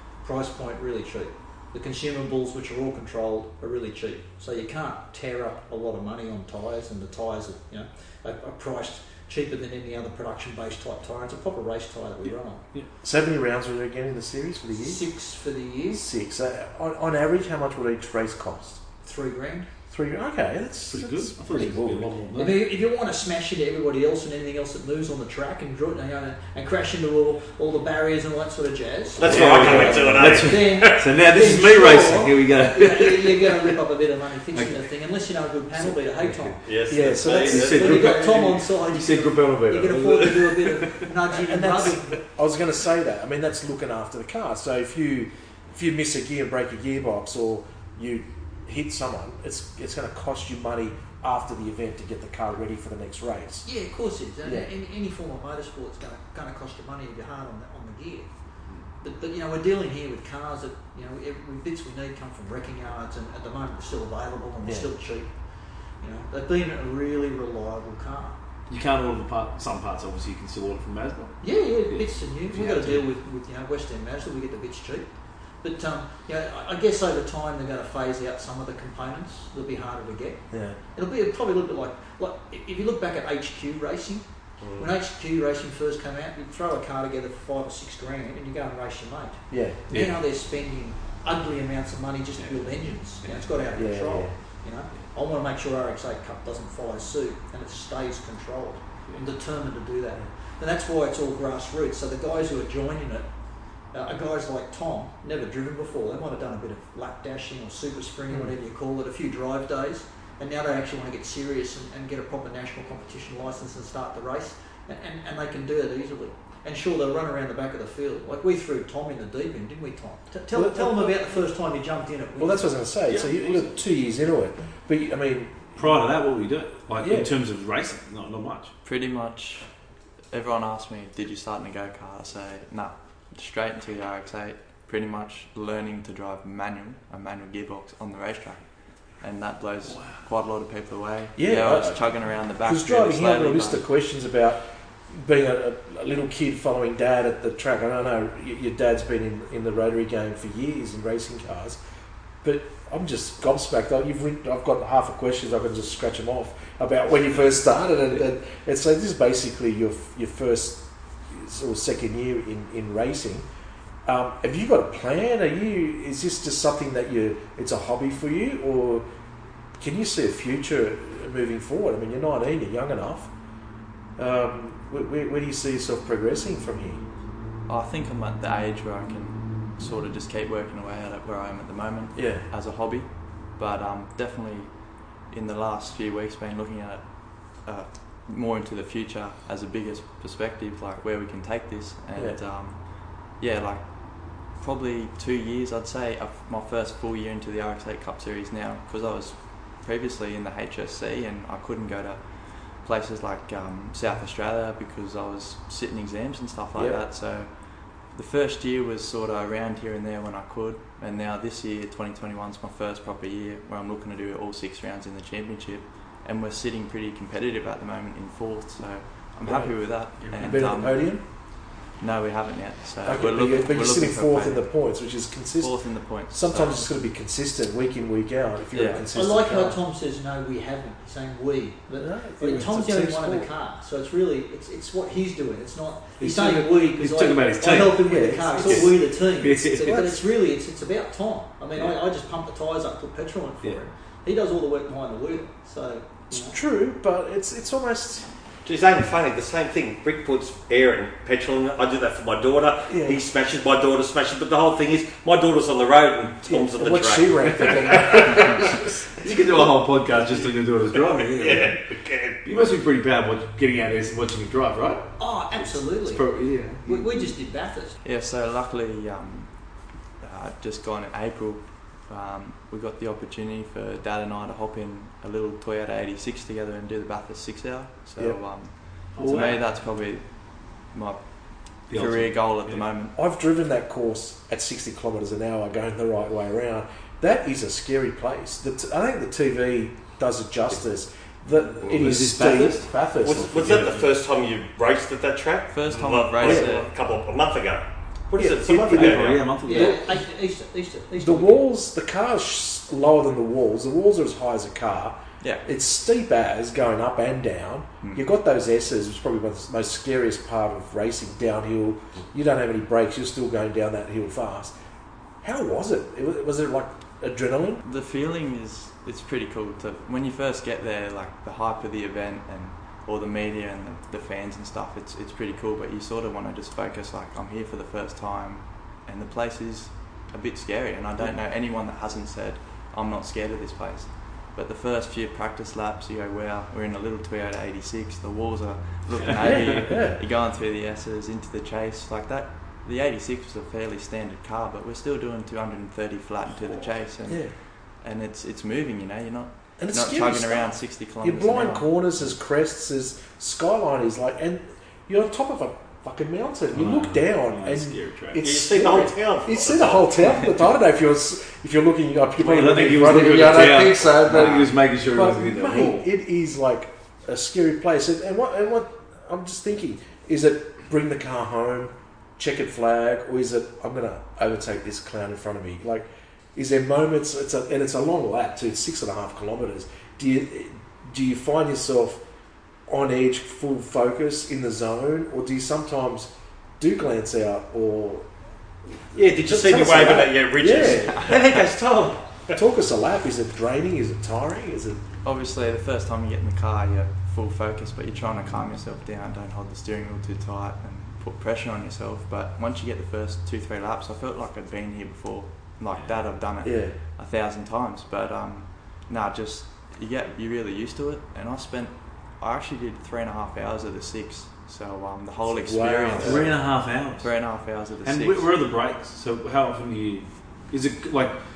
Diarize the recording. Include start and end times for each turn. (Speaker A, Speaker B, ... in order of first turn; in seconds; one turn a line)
Speaker A: 0.2-12.6
Speaker B: 12.2-12.9
Speaker C: 13.0-15.0
Speaker A: 14.7-16.1
Speaker C: 15.9-18.8
Speaker A: 19.0-19.7
Speaker C: 19.9-22.3
Speaker B: 20.9-22.7
Speaker A: 22.4-36.6
Speaker D: 29.2-31.2
Speaker B: 29.2-33.8
Speaker C: 29.3-30.4
Speaker B: 34.5-34.8
Speaker B: 35.7-36.6
Speaker D: 36.6-38.1
Speaker C: 36.9-38.0
Speaker A: 37.2-42.2
Speaker B: 37.3-41.1
Speaker C: 41.3-53.6
Speaker A: 53.6-58.3
Speaker C: 54.4-54.7
Speaker A: 59.0-65.3
Speaker C: 64.6-64.9
Speaker A: 66.0-68.4
Speaker B: 68.7-73.1
Speaker A: 71.4-103.3
Speaker C: 80.5-80.8
Speaker C: 89.5-89.8
Speaker B: 89.9-90.2
Speaker B: 92.4-93.7
Speaker C: 93.7-94.3
Speaker A: 103.9-122.8
Speaker C: 120.5-121.2
Speaker C: 122.4-125.7
Speaker B: 123.1-123.8
Speaker B: 125.8-128.7
Speaker C: 127.0-127.3
Speaker E: 128.8-129.7
Speaker E: 130.3-143.8
Speaker B: 139.8-140.2
Speaker C: 141.4-142.0
Speaker C: 142.6-151.8
Speaker C: 152.4-163.4
Speaker C: 164.0-169.1
Speaker C: 169.8-173.3
Speaker C: 174.2-177.0
Speaker E: 177.7-224.8
Speaker C: 182.2-182.4
Speaker C: 206.7-207.0
Speaker C: 219.4-221.2
Speaker B: 220.2-220.6
Speaker C: 223.0-229.8
Speaker E: 225.6-226.9
Speaker E: 228.7-229.1
Speaker A: 229.1-246.5
Speaker C: 232.0-233.5
Speaker B: 236.2-240.2
Speaker C: 238.0-239.0
Speaker C: 239.8-240.2
Speaker B: 241.7-242.0
Speaker C: 246.3-248.3
Speaker D: 248.6-258.5
Speaker C: 252.9-253.2
Speaker C: 256.4-258.9
Speaker B: 257.6-261.8
Speaker D: 261.2-262.4
Speaker B: 262.4-265.1
Speaker A: 265.2-266.3
Speaker B: 266.0-267.3
Speaker A: 266.8-268.0
Speaker E: 268.0-283.1
Speaker B: 279.1-279.6
Speaker B: 281.9-282.8
Speaker C: 283.1-293.9
Speaker B: 291.6-292.9
Speaker E: 291.9-292.9
Speaker D: 293.2-299.5
Speaker B: 293.6-294.1
Speaker E: 295.7-296.9
Speaker C: 296.4-296.8
Speaker C: 298.4-300.2
Speaker B: 298.8-300.1
Speaker A: 299.6-301.6
Speaker C: 301.1-314.7
Speaker E: 305.4-305.6
Speaker E: 308.0-308.3
Speaker C: 315.4-317.8
Speaker E: 317.8-352.3
Speaker B: 339.2-339.8
Speaker C: 339.4-340.2
Speaker C: 347.3-347.5
Speaker C: 349.8-382.2
Speaker B: 356.7-358.4
Speaker D: 358.4-360.2
Speaker B: 362.4-366.1
Speaker C: 382.9-388.3
Speaker C: 389.1-391.4
Speaker D: 389.1-392.6
Speaker E: 390.8-391.6
Speaker C: 392.5-395.0
Speaker E: 395.2-418.5
Speaker B: 405.9-406.2
Speaker C: 406.6-406.9
Speaker C: 415.4-416.5
Speaker B: 416.1-417.3
Speaker B: 418.0-421.4